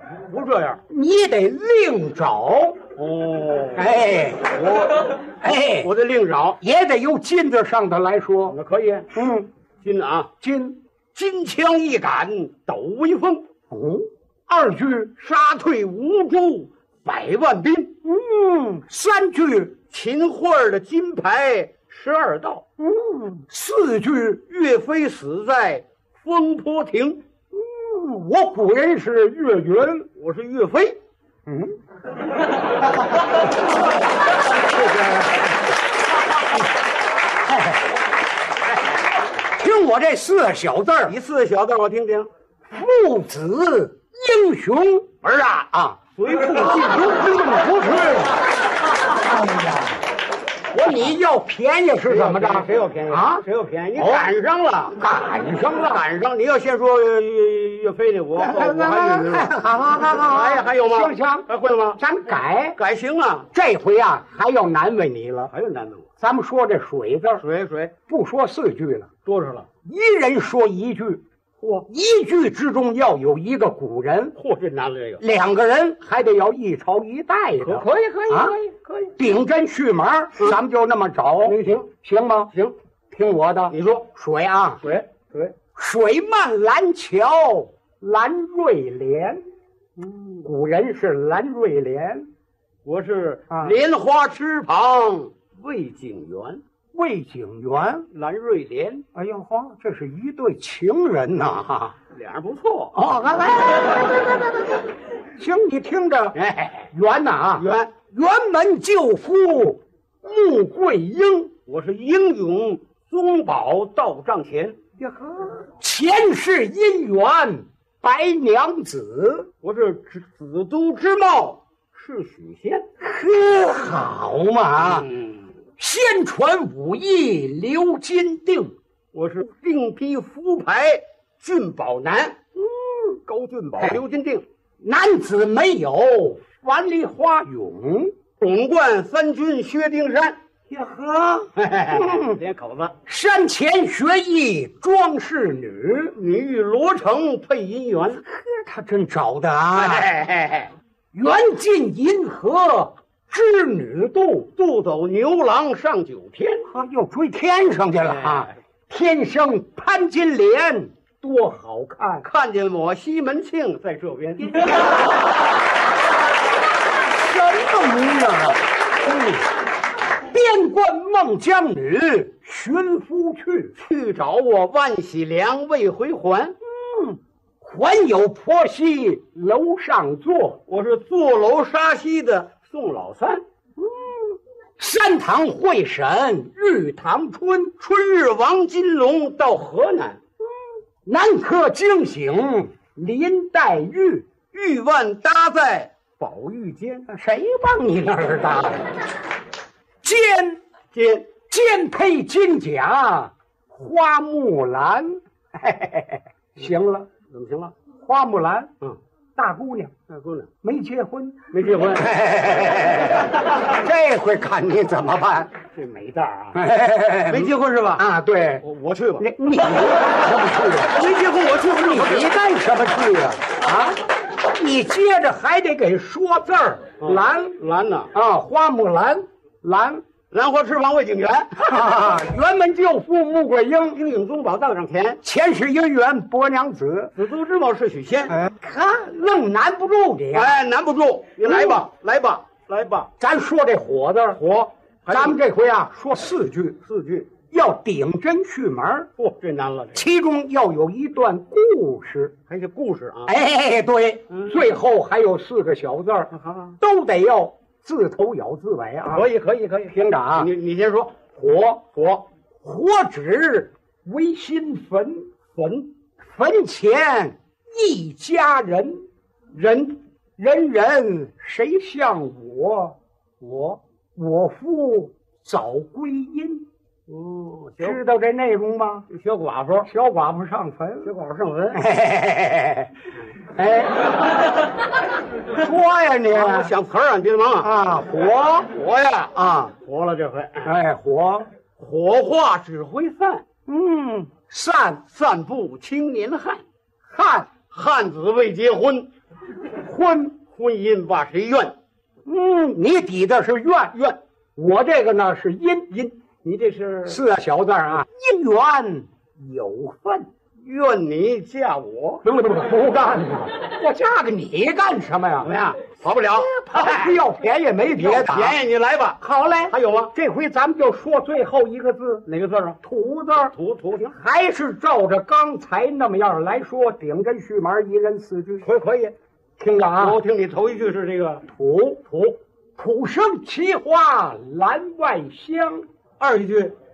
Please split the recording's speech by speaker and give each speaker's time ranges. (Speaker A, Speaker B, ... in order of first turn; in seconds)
Speaker A: 0.3-0.8, 2.9-3.9, 4.5-6.6, 8.5-9.1, 9.8-10.3, 11.1-13.4, 15.2-17.9, 19.9-22.6, 24.5-27.2, 30.1-31.0, 41.0-42.3, 45.2-47.2, 52.1-55.0, 55.8-59.5, 60.3-62.0, 62.7-63.5, 65.5-66.1, 67.4-67.9, 69.2-69.7, 71.6-71.9, 74.3-75.2, 77.6-79.1, 81.5-81.9, 83.7-84.1, 84.8-85.5, 90.0-90.5, 92.8-96.6, 98.1-99.0, 102.1-103.0, 106.3-106.9, 107.5-107.9, 111.7-114.8, 119.6-122.8, 124.8-125.4, 129.1-132.4, 133.1-134.4, 138.4-140.4, 141.6-142.9, 146.1-148.2, 149.7-150.7, 154.5-156.7, 158.0-158.6, 162.2-164.7, 173.8-176.6, 180.7-183.4, 187.8-190.2, 194.5-197.1, 200.9-201.3, 207.3-207.7, 210.1-210.5, 211.5-212.1, 215.7-216.6, 217.3-218.0, 218.6-219.2, 220.9-222.3, 227.0-228.1, 230.3-231.8, 233.9-235.2, 237.1-238.4, 240.3-243.1, 244.3-245.4, 246.8-247.3, 249.2-250.1, 252.5-253.3, 254.3-254.6, 256.3-256.8, 259.1-261.2, 261.9-262.3, 265.5-265.9, 269.5-270.0, 277.1-278.0, 279.1-279.9, 281.0-281.8, 286.3-287.7, 288.7-290.7, 291.8-293.4, 295.1-296.6, 297.7-299.1, 300.4-301.8, 303.9-304.2, 306.4-307.2, 310.6-312.2, 315.4-317.2, 317.9-320.1, 322.2-322.8, 323.5-324.2, 328.6-329.1, 330.0-331.4, 332.1-332.4, 336.2-336.7
Speaker B: 0.9-2.8, 3.7-4.5, 5.4-5.9, 6.6-8.6, 9.1-9.5, 10.4-10.8, 13.7-15.1, 18.0-19.7, 22.8-24.4, 27.5-30.1, 31.5-31.7, 39.5-41.1, 42.7-45.1, 46.6-48.3, 49.3-49.9, 50.7-53.4, 54.0-54.3, 55.0-56.0, 58.4-62.8, 63.5-65.5, 66.2-67.4, 68.1-69.1, 69.8-71.2, 71.9-74.3, 75.2-78.6, 79.2-82.5, 83.1-84.8, 85.7-89.4, 90.4-92.3, 93.5-93.8, 96.9-98.1, 99.1-101.9, 102.9-104.4, 105.4-106.3, 106.9-111.5, 115.0-119.5, 123.0-125.1, 125.8-128.7, 132.6-132.9, 134.8-138.1, 140.7-142.4, 143.1-146.1, 148.2-150.1, 151.1-154.5, 156.7-162.3, 167.1-169.4, 170.3-173.8, 176.8-180.6, 183.8-187.7, 191.0-194.2, 197.1-198.9, 200.0-200.6, 201.5-207.1, 208.0-208.7, 209.3-209.9, 210.6-215.5, 216.5-218.6, 219.2-221.1, 221.7-227.6, 228.1-230.0, 231.6-234.0, 235.2-237.1, 238.3-240.6, 241.4-241.8, 243.2-244.4, 245.1-246.8, 247.5-249.1, 249.9-252.3, 253.3-259.3, 259.9-260.5, 261.3-261.8, 262.6-265.3, 266.2-269.1, 270.4-276.6, 277.8-279.1, 279.9-281.1, 281.7-282.9, 283.5-284.1, 285.6-286.7, 287.6-288.7, 290.6-291.5, 293.7-295.0, 297.1-297.5, 299.8-300.3, 302.2-303.9, 304.6-306.1, 307.1-310.3, 312.2-315.5, 316.3-318.6, 319.2-322.3, 322.8-323.5, 324.1-328.7, 329.6-330.2, 331.4-332.1, 332.8-335.9